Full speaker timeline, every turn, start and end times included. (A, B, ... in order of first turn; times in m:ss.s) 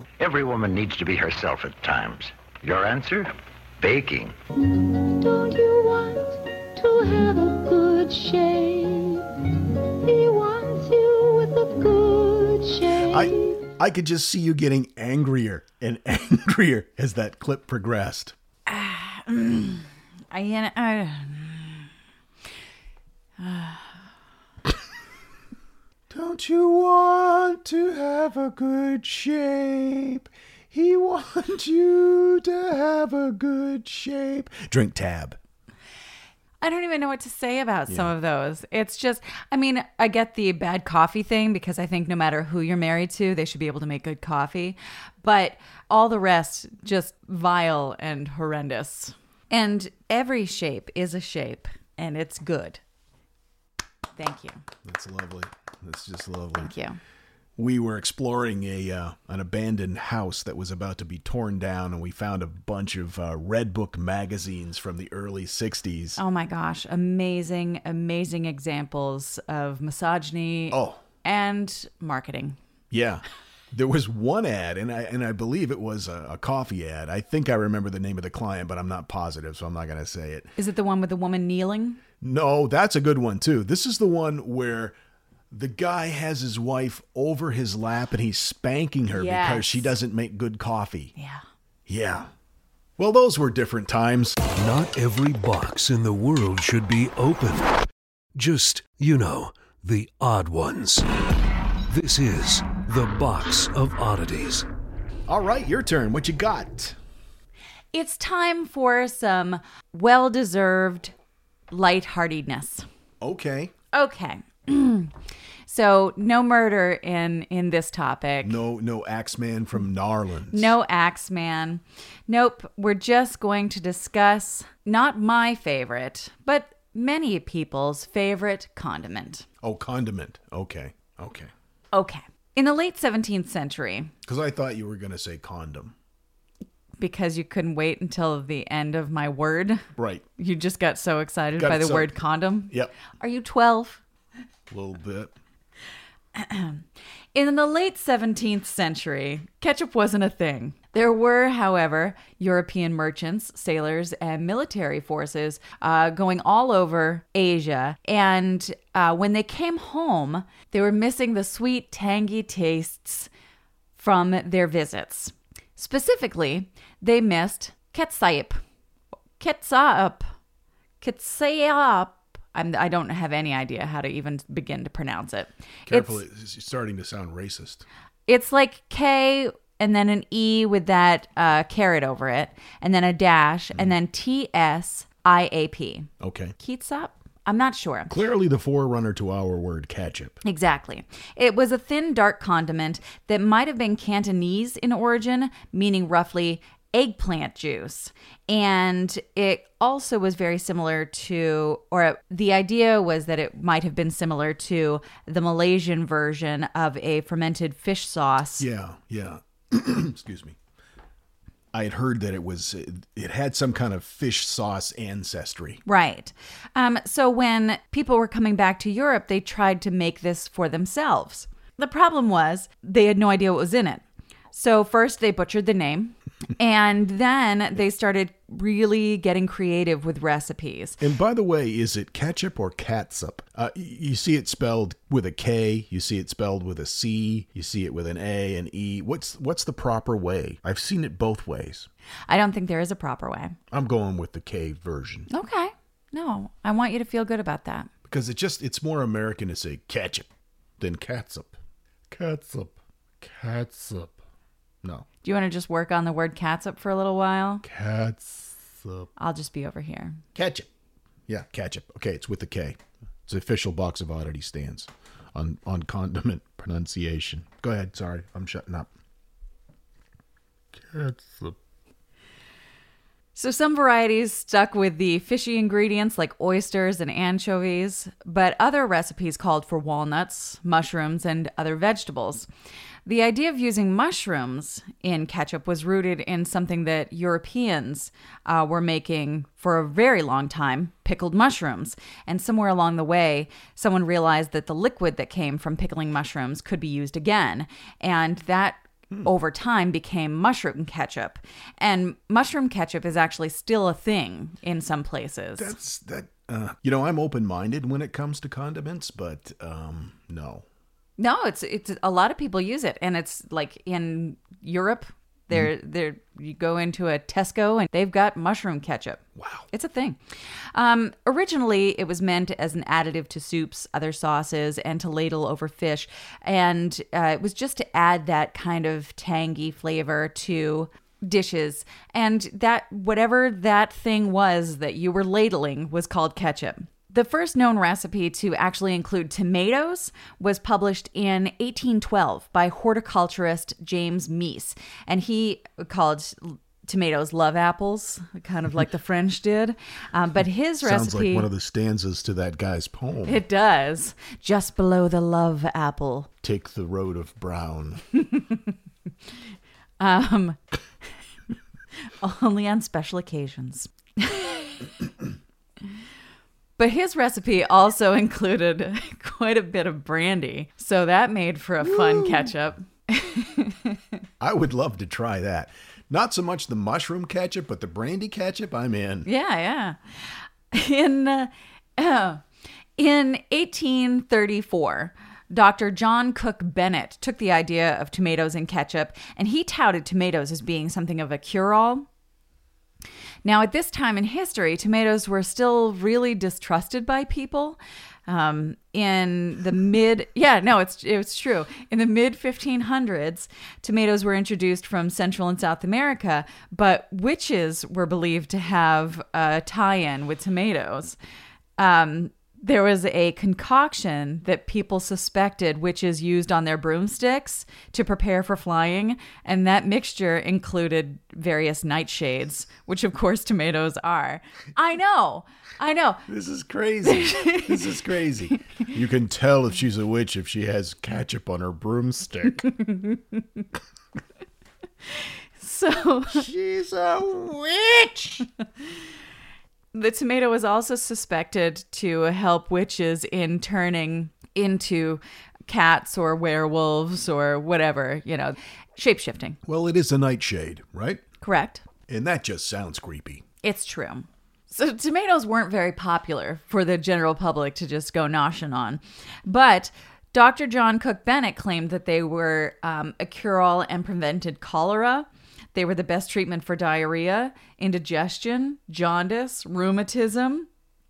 0:00.2-0:04.4 A
0:04.8-0:09.3 B
0:10.0-0:13.6 B
0:13.1-0:18.4 C
0:18.7-0:21.9 D
0:23.4-0:24.0 D
0:26.1-0:35.4 C
0:36.6-0:52.8 D
0:54.2-0:54.6 D
0:54.8-0:56.7 C
0:56.6-0:57.0 D
0:57.6-1:06.2 C
1:06.2-1:12.6 D
1:10.7-1:11.0 C
1:12.9-1:20.5 C
1:20.6-1:22.0 D
1:22.2-1:25.0 C
1:25.5-1:31.1 C
1:29.1-1:29.9 D
1:31.2-1:31.4 D
1:31.9-1:32.3 C
1:33.0-1:34.4 C
1:34.6-1:37.8 E
1:38.4-1:41.1 E
1:41.9-1:44.7 E
1:45.3-1:47.0 C
1:47.9-1:51.1 D
1:51.7-1:52.9 D
1:53.2-1:53.7 C
1:53.9-1:55.2 D
1:55.7-1:58.6 D
1:58.4-2:00.7 C
2:00.5-2:09.5 D
2:09.6-2:11.5 C
2:11.9-2:14.1 D
2:14.2-2:16.0 C
2:17.0-2:19.9 D
2:20.0-2:20.2 C
2:20.4-2:24.0 D
2:21.6-2:22.1 C
2:24.7-2:25.3 C
2:26.4-2:43.3 D
2:44.0-2:48.6 D
2:49.4-2:50.3 D
2:51.0-2:56.2 D
2:55.9-2:57.9 C
2:58.3-3:08.2 D
3:06.2-3:06.6 C
3:08.1-3:10.4 C
3:10.4-3:28.7 D
3:28.6-3:30.6 C
3:31.7-3:35.8 C
3:35.9-3:51.0 D
3:51.0-4:01.9 C
4:02.3-4:03.6 D
4:03.7-4:05.3 C
4:05.3-4:07.9 D
4:08.0-4:10.3 C
4:10.8-4:11.6 C
4:12.1-4:14.2 C
4:15.2-4:17.6 D
4:17.6-4:19.1 C
4:19.2-4:20.2 D
4:20.4-4:20.7 C
4:21.3-4:28.9 C
4:30.7-4:31.6 C
4:33.4-4:42.5 D
4:43.1-5:05.7 D
5:05.6-5:10.6 C
5:11.2-5:20.2 D
5:19.4-5:19.7 C
5:20.7-5:51.5 D
5:50.8-5:53.4 C
5:53.3-5:56.3 D
5:56.4-5:58.0 C
5:58.3-5:58.6 D
6:00.0-6:00.6 D
6:02.2-6:04.9 D
6:06.8-6:14.0 D
6:11.8-6:12.5 C
6:14.4-6:19.3 C
6:19.2-6:22.4 D
6:23.0-6:32.1 D
6:33.4-6:51.2 D
6:51.8-7:06.2 D
7:06.3-7:12.7 C
7:07.0-7:07.9 D
7:08.5-7:08.8 D
7:12.8-7:13.2 D
7:15.6-7:16.4 D
7:16.3-7:18.5 C
7:19.9-7:29.6 D
7:29.6-7:31.2 C
7:31.4-7:31.8 D
7:32.1-7:33.4 C
7:33.6-7:50.7 D